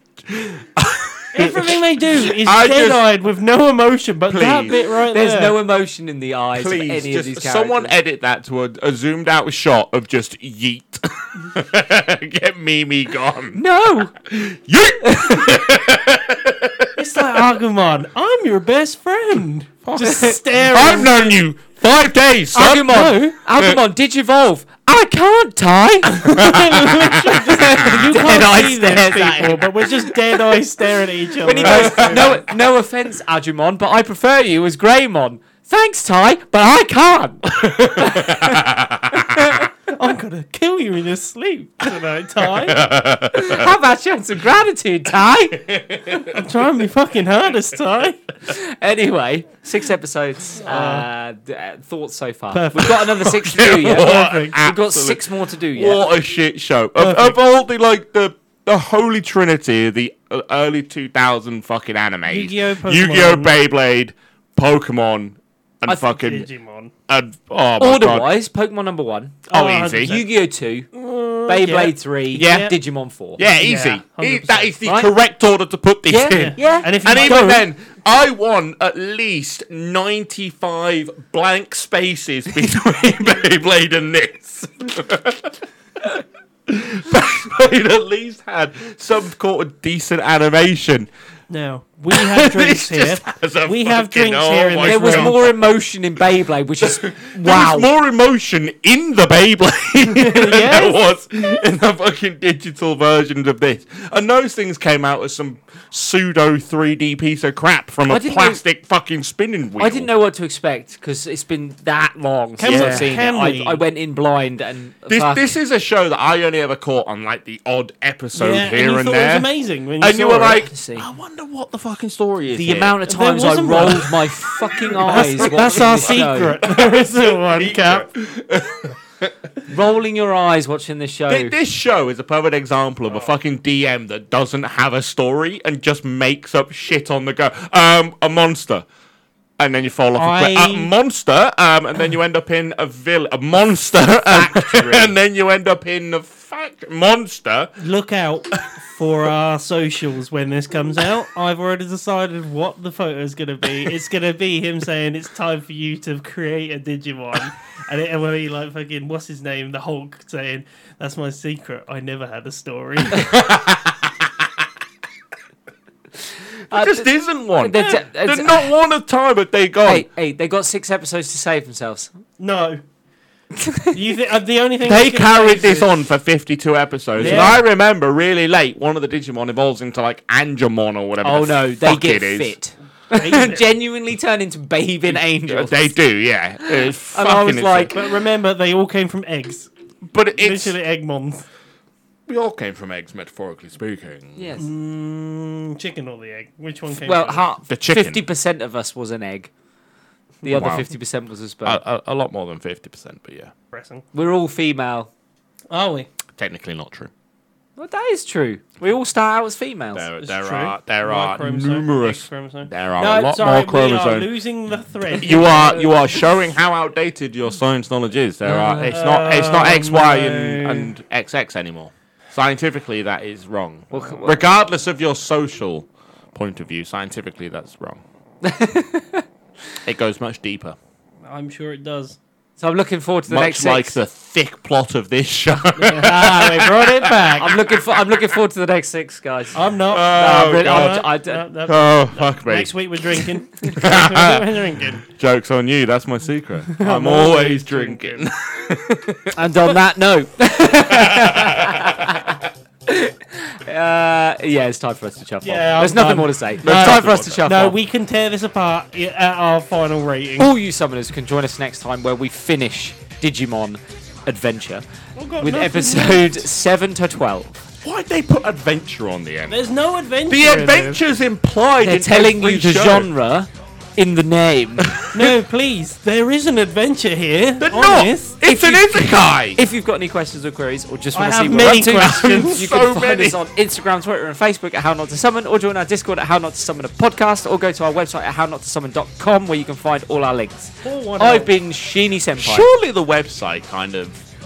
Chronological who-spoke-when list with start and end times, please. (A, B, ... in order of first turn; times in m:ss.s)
0:00.3-0:03.0 A
0:01.3-0:05.6 B
0:04.3-0:04.8 A
0:05.1-0:07.9 C
0:06.5-0:13.6 A
0:13.5-0:14.1 C
0:14.2-0:17.0 A
0:15.0-0:15.6 C
0:16.9-0:21.2 B
0:19.8-0:23.8 A
0:20.0-0:20.3 C
0:22.5-0:29.6 C
0:22.8-0:23.3 B
0:26.1-0:28.5 A
0:26.2-0:32.4 B
0:31.4-0:39.6 C
0:31.6-0:32.4 A
0:37.5-0:39.6 A
0:39.9-0:42.8 B
0:42.6-0:43.7 A
0:43.3-0:45.7 C
0:45.5-0:46.4 A
0:46.2-0:48.2 B
0:48.4-0:56.1 C
0:50.6-0:51.0 B
0:52.5-0:54.6 B
0:53.0-1:06.5 A
0:57.0-0:57.4 B
1:02.3-1:03.6 B
1:05.9-1:06.9 B
1:07.1-1:08.3 A
1:07.8-1:09.4 C
1:09.5-1:10.3 B
1:09.5-1:10.2 A
1:10.0-1:10.9 C
1:10.9-1:12.7 B
1:11.5-1:13.4 C
1:12.3-1:12.7 A
1:13.4-1:31.1 A
1:13.4-1:15.1 B
1:16.1-1:17.6 C
1:16.3-1:17.6 B
1:31.5-1:35.6 B
1:32.1-1:35.6 A
1:34.8-1:37.9 C
1:36.8-1:50.1 A
1:40.1-1:41.0 B
1:48.1-1:48.6 C
1:49.8-1:55.5 C
1:52.6-1:53.8 B
1:52.6-1:53.1 A
1:55.1-1:59.5 A
1:58.4-2:00.6 B
2:00.0-2:03.0 A
2:00.5-2:01.1 C
2:02.5-2:06.6 C
2:03.1-2:04.3 B
2:04.7-2:09.3 A
2:04.8-2:08.1 B
2:09.7-2:11.6 C
2:11.3-2:18.8 A
2:19.6-2:27.7 A
2:20.2-2:20.9 B
2:24.2-2:25.1 C
2:27.8-2:43.2 B
2:43.1-2:44.6 A
2:46.7-2:48.7 C
2:46.7-2:50.1 A
2:49.8-2:52.1 C
2:52.4-2:52.8 B
2:53.6-2:53.9 C
2:53.9-2:55.9 B
2:54.8-3:02.5 A
2:57.2-2:57.6 C
2:57.2-2:57.6 B
3:01.2-3:05.9 C
3:03.1-3:03.7 B
3:05.1-3:08.0 A
3:06.6-3:08.0 C
3:07.9-3:09.7 B
3:10.0-3:10.8 A
3:10.3-3:11.4 B
3:12.3-3:14.5 A
3:14.4-3:14.7 C
3:14.6-3:17.5 B
3:16.9-3:19.5 C
3:17.7-3:18.2 A
3:20.4-3:21.8 C
3:20.5-3:20.9 A
3:21.6-3:23.5 A
3:23.7-3:24.0 B
3:24.1-3:25.1 C
3:25.7-3:26.1 B
3:26.4-3:27.1 A
3:27.8-3:30.1 C
3:29.9-3:34.3 A
3:30.2-3:36.2 B
3:35.1-3:48.0 A
3:38.4-3:39.0 C
3:38.8-3:40.9 B
3:43.9-3:44.4 C
3:48.4-3:49.2 C
3:49.8-3:50.8 A
3:51.3-3:52.2 B
3:52.6-3:54.0 C
3:53.3-3:57.3 A
3:55.8-3:57.6 B
3:57.4-4:01.5 C
3:59.5-4:05.0 B
3:59.9-4:01.0 A
4:01.6-4:04.5 A
4:05.1-4:09.6 A
4:06.8-4:08.3 B
4:09.3-4:17.8 C
4:10.9-4:12.2 A
4:15.4-4:20.5 B
4:16.6-4:17.4 A
4:20.4-4:24.8 C
4:25.2-4:26.4 B
4:25.4-4:27.6 C
4:27.8-4:29.6 A
4:29.5-4:31.0 B
4:30.3-4:33.1 A
4:31.8-4:35.0 C
4:34.8-4:35.3 A
4:35.1-4:38.4 B
4:37.6-4:39.6 A
4:38.4-4:52.7 C
4:41.1-4:42.6 B
4:42.1-4:43.4 A
4:50.8-4:51.5 B
4:52.4-4:54.2 A